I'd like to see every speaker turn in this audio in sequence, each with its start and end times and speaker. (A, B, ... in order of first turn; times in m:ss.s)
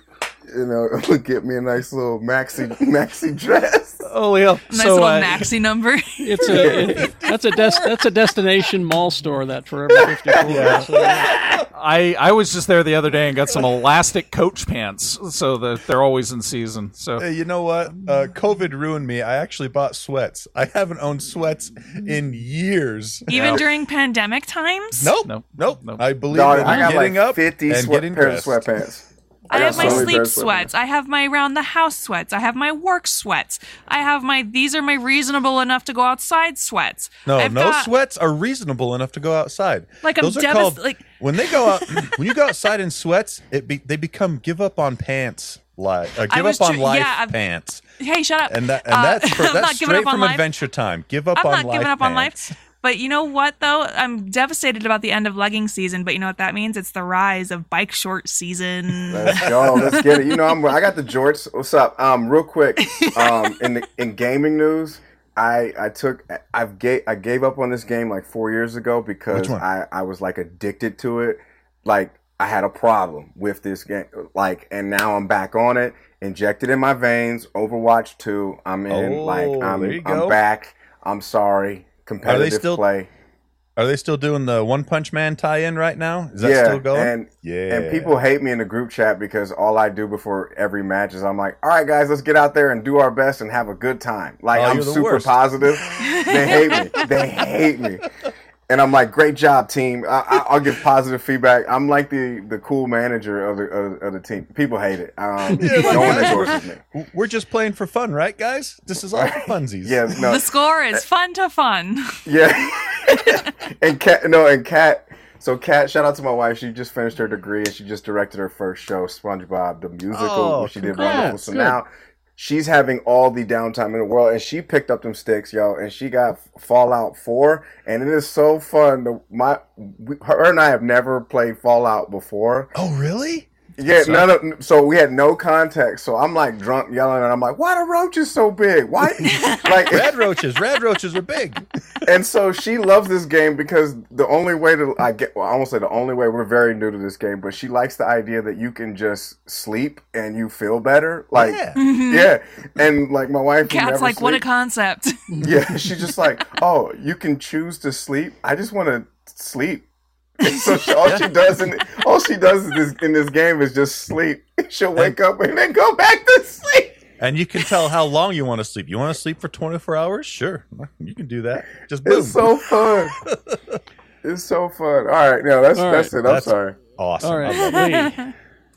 0:00.5-0:04.1 A
0:04.0-0:05.5 B
0:04.7-0:06.5 C
0:06.2-0:11.3 D
0:06.5-0:08.1 E
0:06.6-0:06.9 A
0:10.3-0:11.6 A
0:10.4-0:11.6 E
0:11.7-0:17.2 B
0:17.2-0:23.7 E
0:23.3-0:25.1 C
0:23.3-0:23.6 B
0:25.0-0:28.6 E
0:25.2-0:26.0 B
0:26.3-0:30.7 A
0:29.5-0:37.9 C
0:29.6-0:30.2 E
0:37.2-0:47.8 E
0:40.0-0:42.2 C
0:46.3-0:47.4 C
0:48.0-0:50.5 C
0:48.5-0:52.5 E
0:51.3-0:59.9 C
0:59.1-1:23.1 A
0:59.4-1:00.0 E
1:02.8-1:03.5 C
1:09.3-1:09.6 E
1:18.9-1:20.4 E
1:22.2-1:22.8 E
1:23.8-1:28.2 E
1:26.4-1:38.1 A
1:34.5-1:35.4 E
1:36.0-1:37.1 C
1:38.7-1:46.8 A
1:45.5-1:50.1 E
1:45.8-1:46.2 C
1:49.2-1:50.6 A
1:50.1-1:52.2 C
1:52.2-2:12.7 A
2:00.1-2:01.4 E
2:01.0-2:01.8 D
2:12.7-2:14.3 E
2:13.8-2:20.1 A
2:19.2-2:19.9 C
2:19.9-2:21.6 E
2:22.0-2:34.4 A
2:31.3-2:31.8 E
2:31.7-2:32.3 C
2:33.6-2:35.3 C
2:35.4-2:39.9 A
2:40.4-2:47.0 A
2:41.0-2:41.3 E
2:47.2-2:53.8 E
2:52.0-2:53.2 A
2:54.2-2:56.8 A
2:55.8-2:56.1 D
2:56.2-2:58.1 E
2:57.2-2:58.3 D
2:57.7-2:58.3 C